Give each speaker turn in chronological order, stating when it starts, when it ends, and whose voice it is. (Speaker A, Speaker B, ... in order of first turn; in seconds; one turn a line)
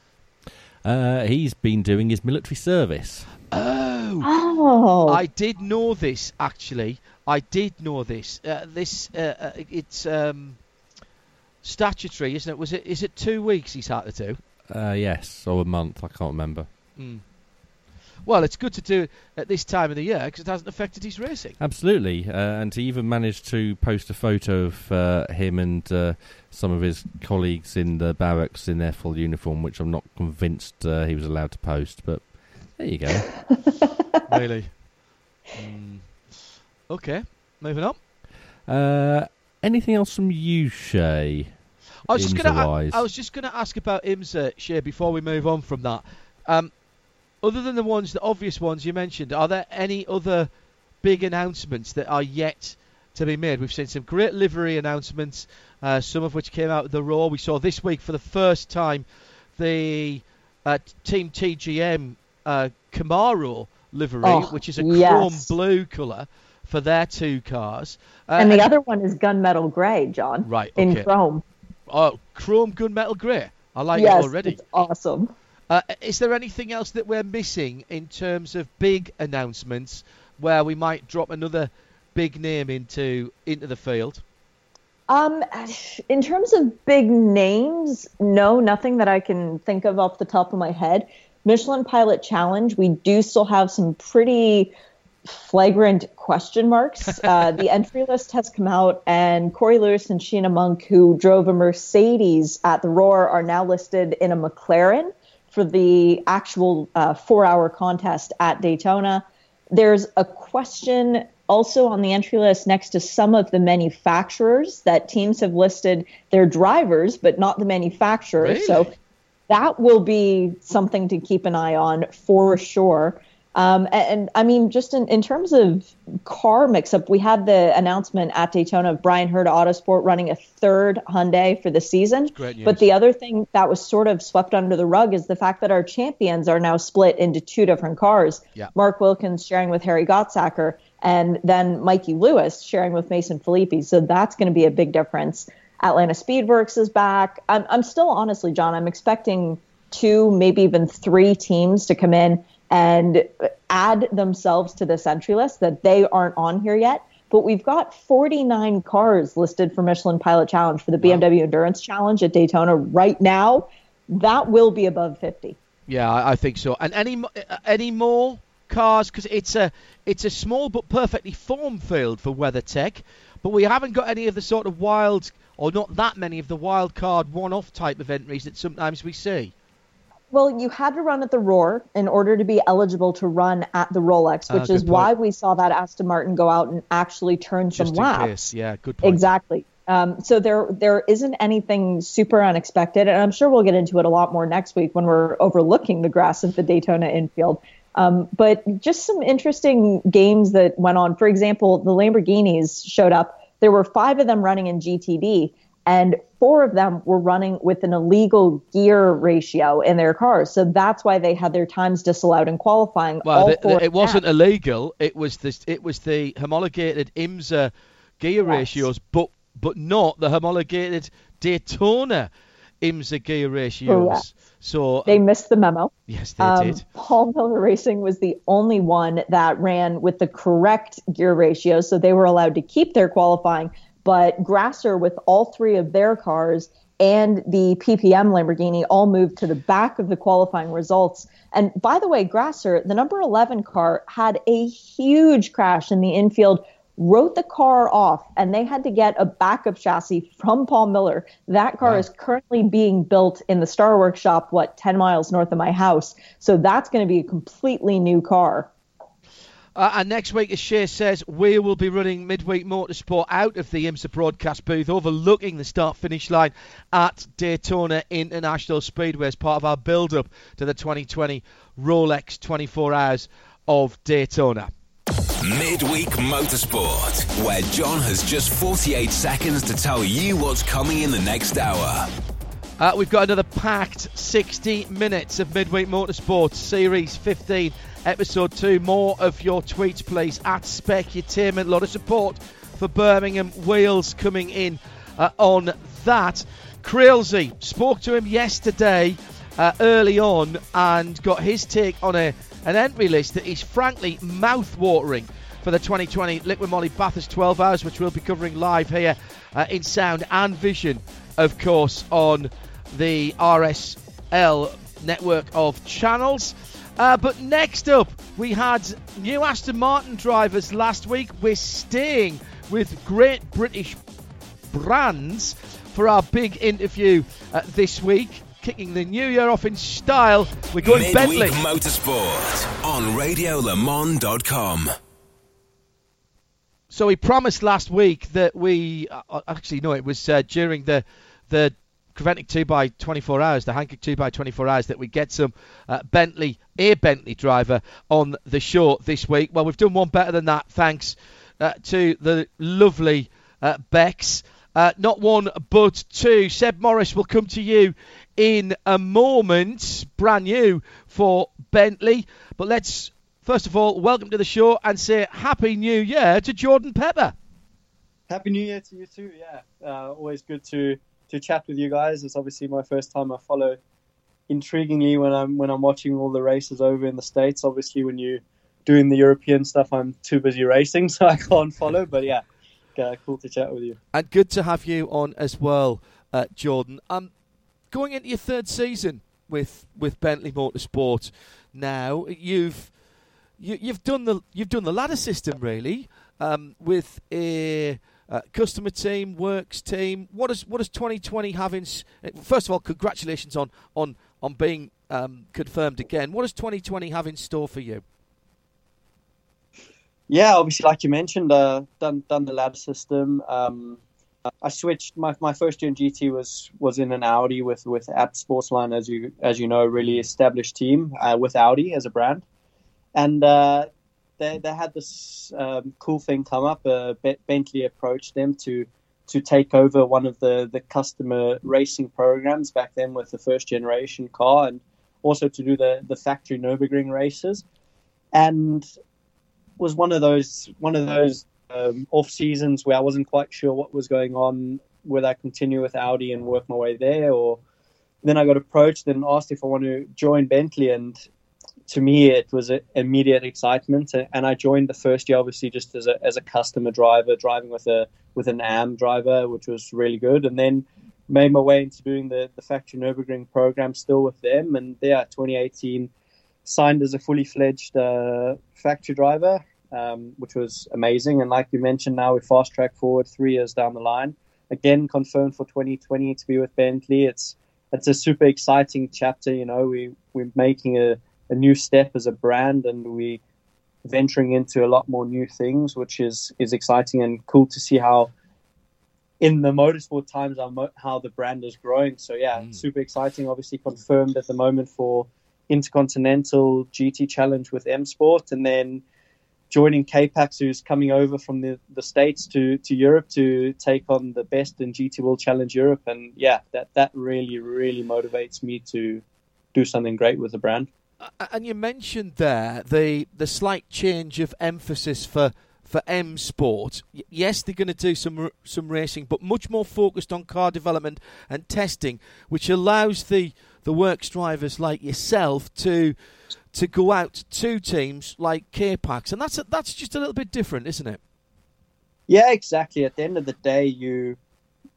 Speaker A: 0.8-3.3
Speaker B: 3.5-4.3
Speaker C: 4.2-5.2
Speaker B: 5.1-10.6
Speaker B: 11.6-14.4
Speaker A: 14.7-16.7
Speaker B: 16.9-17.2
Speaker B: 18.2-21.6
Speaker A: 21.6-33.3
Speaker B: 34.3-34.8
Speaker B: 35.5-38.0
Speaker A: 38.6-41.5
Speaker B: 42.1-46.7
Speaker A: 42.1-43.1
Speaker B: 47.4-50.5
Speaker B: 51.0-59.0
Speaker B: 59.5-68.7
Speaker C: 64.2-65.5
Speaker C: 68.4-71.4
Speaker B: 70.4-71.1
Speaker B: 71.9-74.6
Speaker C: 73.9-75.3
Speaker B: 75.7-84.2
Speaker C: 85.1-94.7
Speaker C: 95.3-118.9
Speaker B: 118.4-118.9
Speaker C: 119.5-165.6
Speaker B: 132.3-132.9
Speaker B: 165.9-179.5
Speaker C: 180.3-188.5
Speaker B: 184.5-185.1
Speaker B: 187.7-189.2
Speaker C: 189.0-214.2
Speaker B: 213.2-222.3
Speaker C: 218.4-218.9
Speaker B: 222.8-225.2
Speaker C: 223.9-224.2
Speaker C: 225.1-258.7
Speaker B: 226.1-226.8
Speaker B: 259.8-274.7
Speaker D: 275.4-282.1
Speaker B: 282.8-324.0
Speaker B: 324.7-331.6
Speaker D: 330.8-334.9
Speaker B: 336.9-367.3
Speaker E: 368.3-373.8
Speaker E: 374.5-382.4
Speaker E: 382.9-384.0
Speaker B: 384.1-387.3
Speaker B: 387.9-392.9
Speaker B: 393.6-408.0
Speaker E: 410.3-414.0
Speaker E: 414.6-422.4
Speaker E: 423.1-437.6
Speaker E: 438.3-438.9
Speaker E: 439.8-447.6
Speaker E: 448.2-451.2
Speaker E: 451.9-466.1
Speaker E: 466.6-483.4
Speaker E: 484.0-488.3
Speaker E: 489.4-499.0
Speaker B: 492.6-492.8
Speaker E: 499.7-509.2
Speaker E: 509.7-510.9
Speaker B: 511.2-526.1
Speaker B: 526.7-531.2
Speaker E: 532.3-534.4